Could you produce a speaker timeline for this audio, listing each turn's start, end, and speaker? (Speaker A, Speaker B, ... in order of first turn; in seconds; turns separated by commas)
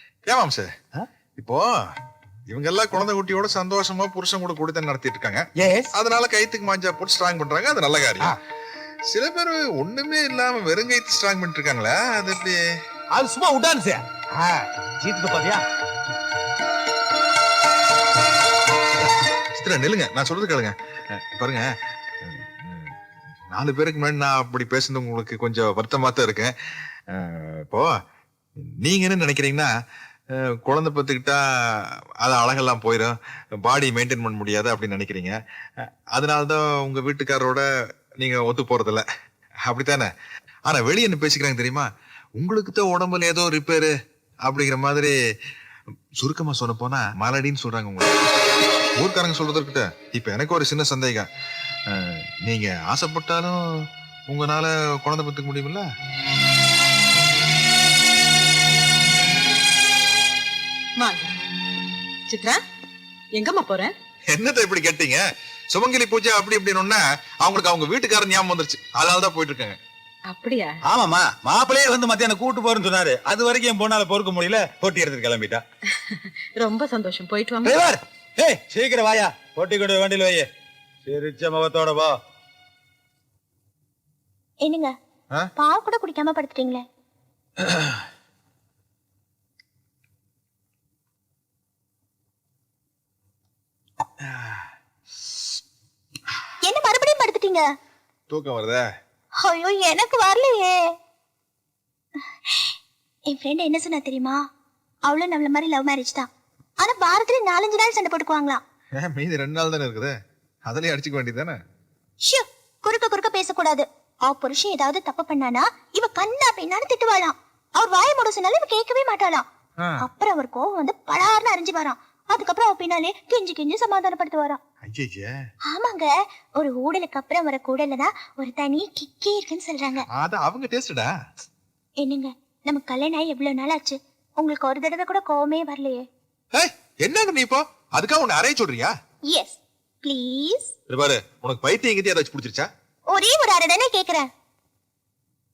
Speaker A: 0.3-0.7, Speaker A: 1.4-1.9, Speaker A: 2.5-8.3, Speaker B: 5.6-5.9, Speaker A: 9.1-12.6, Speaker B: 13.1-15.6, Speaker A: 19.5-21.7, Speaker A: 22.2-22.9, Speaker A: 23.5-26.5, Speaker A: 27.1-27.9, Speaker A: 28.6-29.7, Speaker A: 30.3-37.6, Speaker A: 38.2-39.0, Speaker A: 39.7-40.1, Speaker A: 40.6-43.9, Speaker A: 44.4-45.1, Speaker A: 46.2-48.1, Speaker A: 49.0-51.3, Speaker A: 51.9-55.9, Speaker C: 61.0-61.3, Speaker C: 62.3-62.6, Speaker C: 63.3-63.9, Speaker A: 64.3-69.8, Speaker C: 70.3-70.8, Speaker D: 70.9-75.6, Speaker C: 76.0-77.8, Speaker B: 77.6-78.0, Speaker D: 78.4-80.5, Speaker D: 81.0-82.1, Speaker E: 84.6-84.9, Speaker E: 85.6-86.8, Speaker A: 94.2-94.7, Speaker E: 96.6-97.6, Speaker A: 98.3-98.8, Speaker E: 99.4-100.9, Speaker E: 102.5-102.7, Speaker E: 103.3-104.4, Speaker E: 105.0-106.3, Speaker E: 106.8-108.6, Speaker A: 109.0-110.1, Speaker A: 110.7-111.6, Speaker E: 112.2-119.4, Speaker E: 120.0-124.6, Speaker A: 124.8-125.3, Speaker E: 125.7-130.0, Speaker A: 130.1-131.1, Speaker E: 132.0-136.0, Speaker A: 136.5-138.9, Speaker E: 139.3-140.7, Speaker A: 140.9-142.7, Speaker E: 143.1-144.3